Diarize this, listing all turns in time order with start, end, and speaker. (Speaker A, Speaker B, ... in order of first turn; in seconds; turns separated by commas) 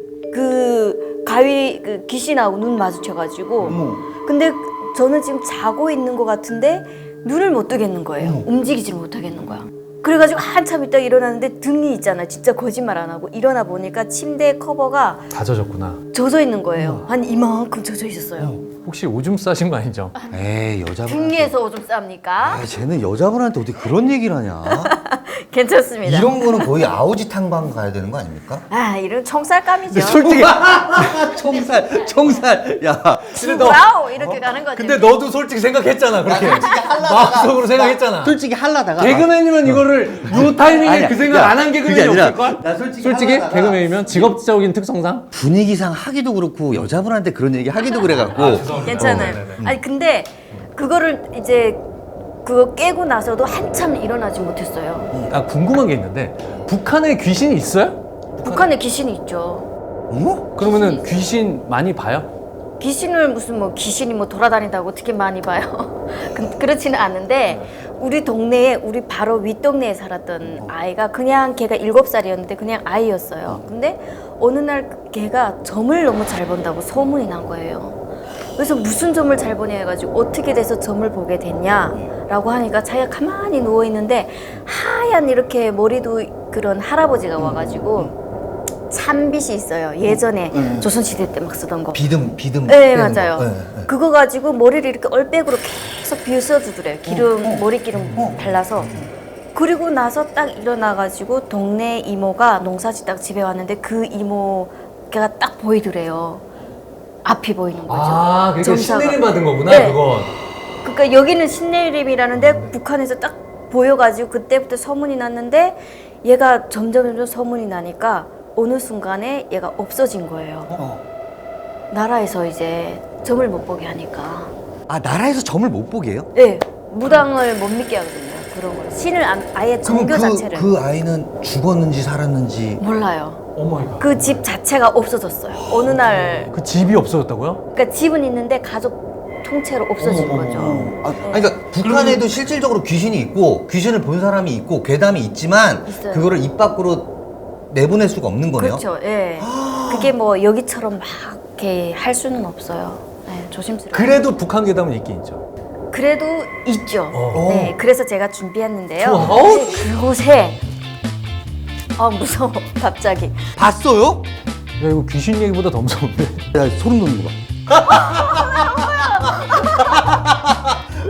Speaker A: 0.3-15.3, Speaker B: 3.6-4.0, Speaker B: 8.2-8.4, Speaker C: 15.3-16.0, Speaker A: 16.1-18.6, Speaker B: 16.7-17.1, Speaker C: 18.8-20.1, Speaker B: 20.3-21.5, Speaker A: 21.0-22.6, Speaker B: 22.4-24.9, Speaker A: 24.6-26.9, Speaker B: 26.0-28.6, Speaker A: 28.7-30.5, Speaker B: 29.9-33.5, Speaker C: 30.2-31.0, Speaker C: 33.3-33.9, Speaker A: 33.3-35.1, Speaker C: 34.7-38.4, Speaker B: 36.2-44.0, Speaker C: 39.0-45.3, Speaker B: 45.3-49.8, Speaker A: 47.8-51.9, Speaker C: 48.3-49.7, Speaker A: 52.4-55.1, Speaker C: 55.3-58.7, Speaker A: 58.4-59.7, Speaker B: 60.1-60.5, Speaker C: 60.5-62.3, Speaker A: 60.6-61.1, Speaker A: 62.8-78.0, Speaker B: 70.5-70.7, Speaker A: 78.5-88.1, Speaker B: 87.4-88.1, Speaker A: 88.9-92.1, Speaker B: 90.0-90.9, Speaker B: 91.9-93.9, Speaker A: 92.7-99.0, Speaker B: 97.0-98.4, Speaker A: 99.5-106.5, Speaker A: 107.2-110.0, Speaker C: 107.9-110.3, Speaker A: 110.8-120.7, Speaker C: 112.3-112.7, Speaker B: 120.7-121.0, Speaker A: 121.9-124.5, Speaker B: 124.9-126.3, Speaker A: 126.3-130.7, Speaker B: 129.8-132.8, Speaker A: 132.8-133.4, Speaker C: 133.5-134.4, Speaker A: 134.0-136.5, Speaker B: 135.6-136.4, Speaker C: 136.5-137.6, Speaker A: 137.7-141.6, Speaker C: 140.0-140.9, Speaker B: 140.5-147.1, Speaker C: 141.8-142.3, Speaker A: 145.8-146.4, Speaker B: 147.7-148.8, Speaker A: 148.6-154.3, Speaker B: 149.4-150.1, Speaker C: 153.9-155.4, Speaker A: 155.9-160.6, Speaker C: 157.1-157.5, Speaker B: 157.3-157.8, Speaker C: 159.0-159.9, Speaker A: 161.9-163.5, Speaker B: 163.6-164.3, Speaker C: 164.8-166.4, Speaker B: 166.5-170.7